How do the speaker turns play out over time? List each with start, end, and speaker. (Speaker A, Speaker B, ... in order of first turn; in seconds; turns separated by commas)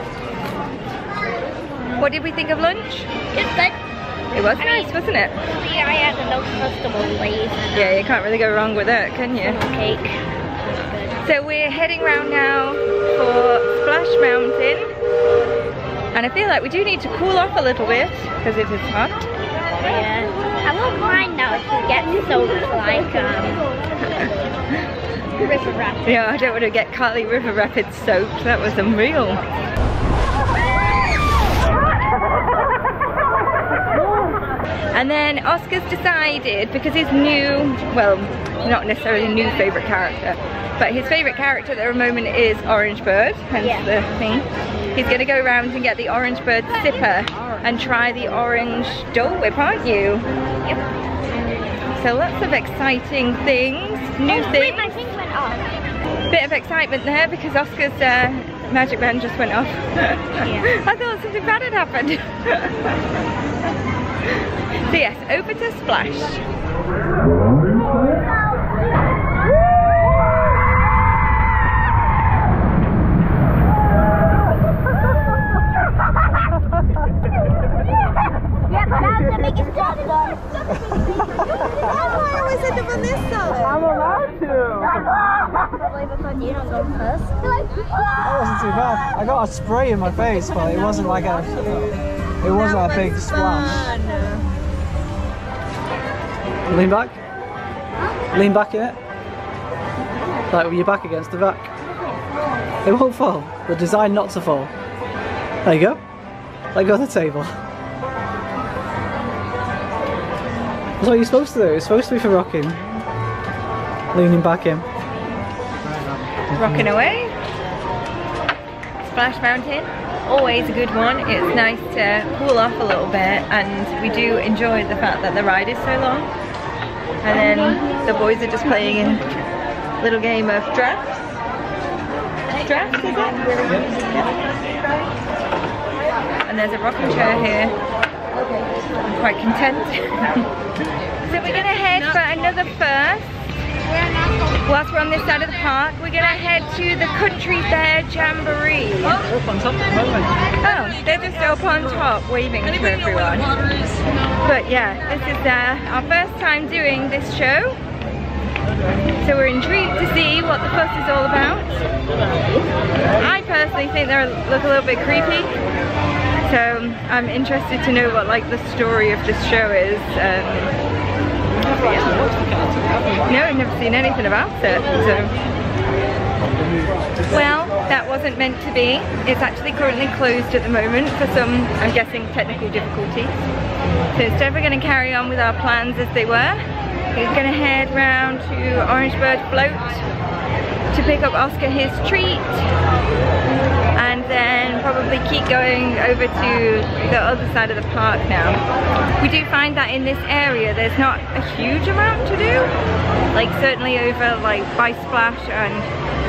Speaker A: 2.0-3.1, Speaker B: 3.3-3.8, Speaker A: 4.3-5.4, Speaker B: 4.6-8.0, Speaker A: 7.7-9.6, Speaker B: 9.4-10.2, Speaker B: 10.7-11.2, Speaker A: 11.2-14.9, Speaker A: 16.1-19.3, Speaker B: 19.8-23.6, Speaker A: 24.1-24.8, Speaker B: 25.4-26.5, Speaker A: 26.0-29.4, Speaker A: 34.9-50.3, Speaker B: 43.6-43.9, Speaker A: 52.0-54.9, Speaker B: 54.3-55.7, Speaker A: 56.3-62.9, Speaker B: 60.4-60.7, Speaker A: 64.9-66.4, Speaker B: 78.7-81.7, Speaker C: 81.2-81.9, Speaker A: 82.0-83.9, Speaker C: 84.2-84.6, Speaker B: 84.8-87.8, Speaker C: 88.2-93.9, Speaker A: 92.5-94.5, Speaker C: 96.7-97.2, Speaker C: 98.3-99.0, Speaker C: 100.5-101.7, Speaker C: 102.8-104.7, Speaker C: 105.6-106.0, Speaker C: 106.7-107.5, Speaker C: 111.0-112.8, Speaker C: 114.1-114.9, Speaker C: 115.8-116.8, Speaker A: 116.5-117.3, Speaker A: 119.0-126.3, Speaker A: 127.2-129.2, Speaker A: 130.0-131.4, Speaker A: 132.6-134.4, Speaker C: 133.6-134.1, Speaker A: 136.5-137.8, Speaker A: 139.0-140.5, Speaker A: 141.3-143.4, Speaker A: 144.7-149.2, Speaker C: 149.2-150.4, Speaker A: 150.6-153.5, Speaker A: 154.4-157.8, Speaker A: 159.2-161.8, Speaker A: 163.2-165.6, Speaker A: 166.4-170.7, Speaker C: 171.6-173.4, Speaker A: 173.3-175.3, Speaker C: 176.5-177.3, Speaker A: 177.3-183.4, Speaker A: 184.1-186.6, Speaker A: 187.1-190.1, Speaker A: 190.9-192.7, Speaker A: 193.9-198.6, Speaker A: 199.2-202.7, Speaker A: 203.3-205.9